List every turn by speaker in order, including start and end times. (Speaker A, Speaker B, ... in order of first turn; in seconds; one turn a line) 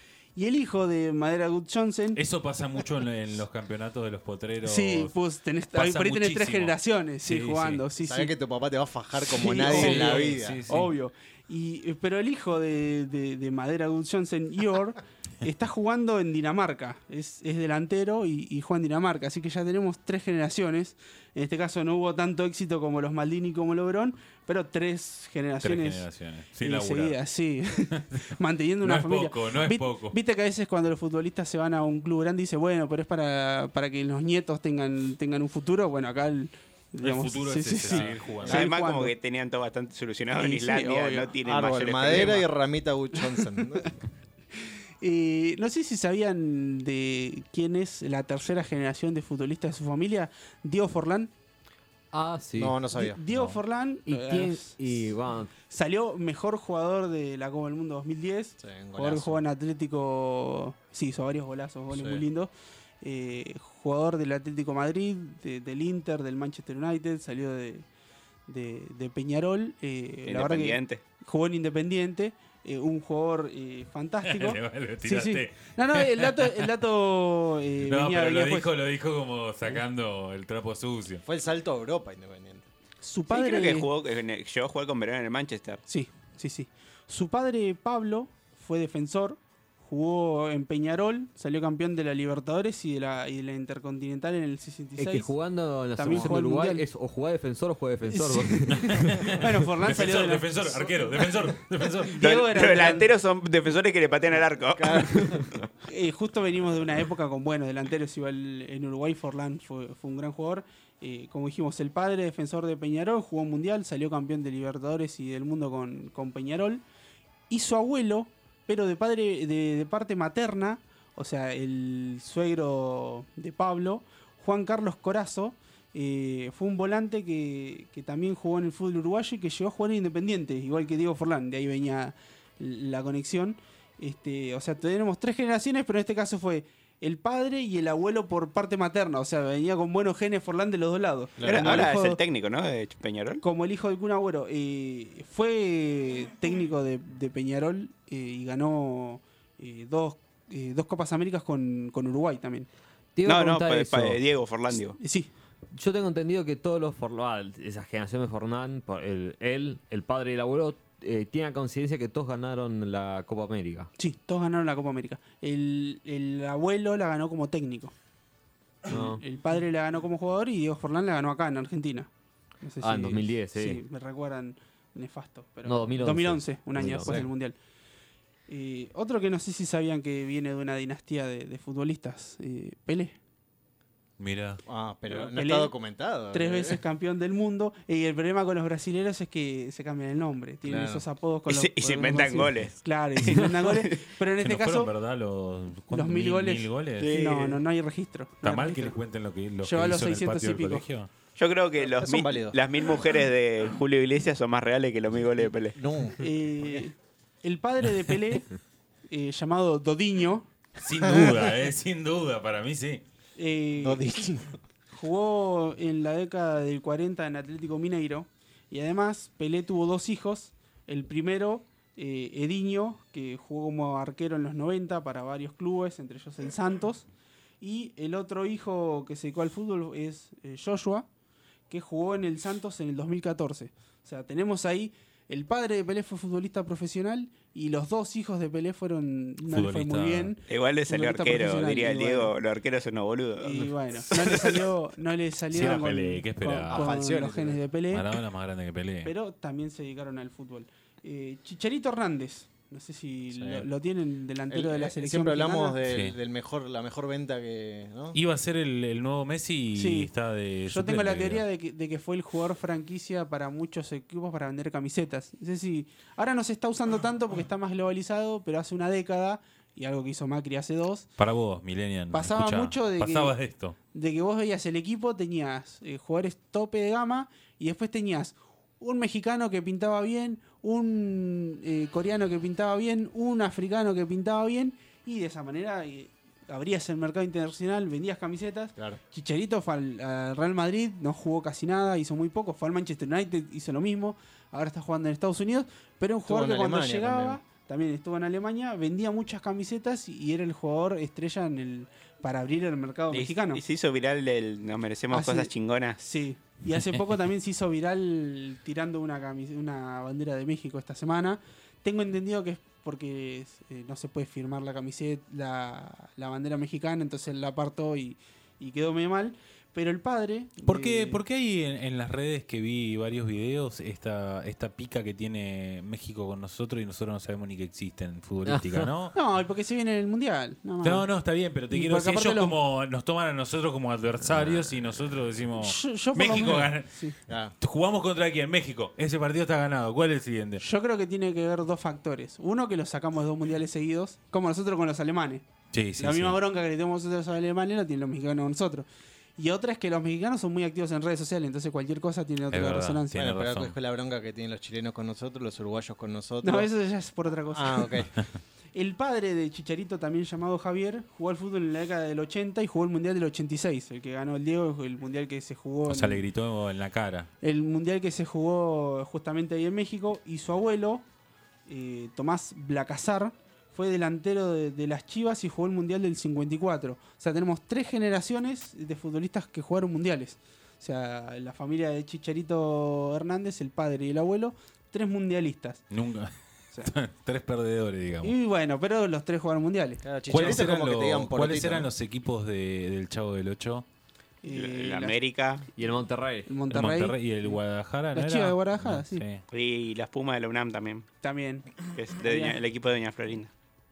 Speaker A: 0.3-2.2
Speaker B: 2.1-5.1
Speaker A: 4.6-8.3
Speaker B: 5.7-7.8
Speaker C: 8.0-10.6
Speaker A: 9.3-26.1
Speaker B: 9.6-10.9
Speaker B: 25.6-27.2
Speaker A: 26.6-39.1
Speaker B: 28.8-30.2
Speaker B: 37.0-38.7
Speaker C: 37.9-38.6
Speaker D: 38.4-42.5
Speaker A: 40.4-41.4
Speaker C: 41.4-43.9
Speaker A: 43.2-43.9
Speaker A: 45.0-51.3
Speaker E: 52.1-52.8
Speaker C: 52.6-53.2
Speaker A: 52.9-54.9
Speaker E: 54.0-55.5
Speaker A: 55.6-67.8
Speaker C: 58.6-59.4
Speaker C: 61.9-62.2
Speaker A: 68.5-78.7
Speaker D: 70.2-71.0
Speaker B: 74.2-76.7
Speaker B: 77.8-81.2
Speaker C: 81.2-82.7
Speaker A: 83.0-83.9
Speaker D: 83.3-85.8
Speaker A: 85.9-95.3
Speaker E: 95.0-99.3
Speaker A: 95.9-96.8
Speaker C: 96.0-96.3
Speaker A: 98.1-100.9
Speaker B: 98.7-102.2
Speaker A: 102.0-103.1
Speaker D: 102.2-105.5
Speaker C: 104.7-105.4
Speaker A: 105.8-116.8
Speaker A: 117.5-142.2
Speaker C: 141.4-141.9
Speaker D: 141.4-143.4
Speaker A: 143.4-152.7
Speaker E: 153.2-154.2
Speaker D: 153.2-155.0
Speaker A: 155.0-155.3
Speaker E: 155.7-163.9
Speaker A: 164.0-167.9
Speaker E: 168.8-169.2
Speaker A: 168.9-172.1
Speaker A: 172.6-177.6
Speaker E: 172.8-173.8
Speaker E: 175.6-177.2
Speaker B: 176.8-177.3
Speaker A: 178.5-183.1
Speaker B: 184.2-184.6
Speaker C: 184.7-186.8
Speaker A: 185.1-194.9
Speaker C: 190.6-191.0
Speaker D: 191.5-194.0
Speaker B: 194.4-197.1
Speaker A: 195.9-199.0
Speaker D: 197.0-197.6
Speaker B: 198.4-201.1
Speaker A: 199.6-200.9
Speaker D: 201.4-205.8
Speaker C: 201.8-202.6
Speaker C: 205.8-206.3
Speaker A: 206.2-208.5
Speaker A: 209.1-210.5
Speaker B: 210.8-213.0
Speaker A: 213.3-214.1
Speaker C: 213.8-214.6
Speaker A: 214.9-227.1
Speaker A: 227.6-231.1
Speaker A: 231.7-242.3
Speaker B: 239.4-240.3
Speaker D: 240.5-244.7
Speaker A: 243.4-248.2
Speaker B: 245.5-246.9
Speaker C: 246.7-247.6
Speaker B: 247.9-249.1
Speaker A: 249.0-255.8
Speaker C: 253.3-253.7
Speaker C: 254.5-258.2
Speaker B: 255.8-256.2
Speaker B: 258.1-261.4
Speaker A: 259.7-260.1
Speaker A: 260.7-271.1
Speaker B: 271.2-273.8
Speaker A: 272.1-273.4
Speaker A: 273.9-303.6
Speaker C: 296.3-297.4
Speaker D: 303.1-306.0
Speaker A: 305.1-321.2
Speaker B: 320.6-329.1
Speaker E: 328.4-328.9
Speaker A: 329.1-331.1
Speaker B: 330.8-336.9
Speaker A: 331.7-332.6
Speaker A: 335.6-337.1
Speaker C: 337.3-337.5
Speaker B: 337.6-340.6
Speaker A: 340.6-345.4
Speaker B: 345.7-346.4
Speaker A: 346.0-348.9
Speaker A: 349.4-353.2
Speaker B: 352.5-353.7
Speaker C: 353.1-356.7
Speaker A: 356.4-358.0
Speaker C: 357.5-358.1
Speaker A: 358.7-366.3
Speaker B: 365.9-367.3
Speaker A: 367.4-371.0
Speaker A: 371.7-385.8
Speaker B: 385.9-388.4
Speaker A: 388.2-390.0
Speaker C: 390.0-391.9
Speaker B: 390.3-393.8
Speaker A: 394.4-395.1
Speaker D: 394.5-395.7
Speaker E: 395.8-396.5
Speaker A: 396.4-397.6
Speaker B: 396.7-399.4
Speaker A: 398.1-399.2
Speaker D: 399.5-401.0
Speaker A: 401.2-402.6
Speaker D: 401.8-403.5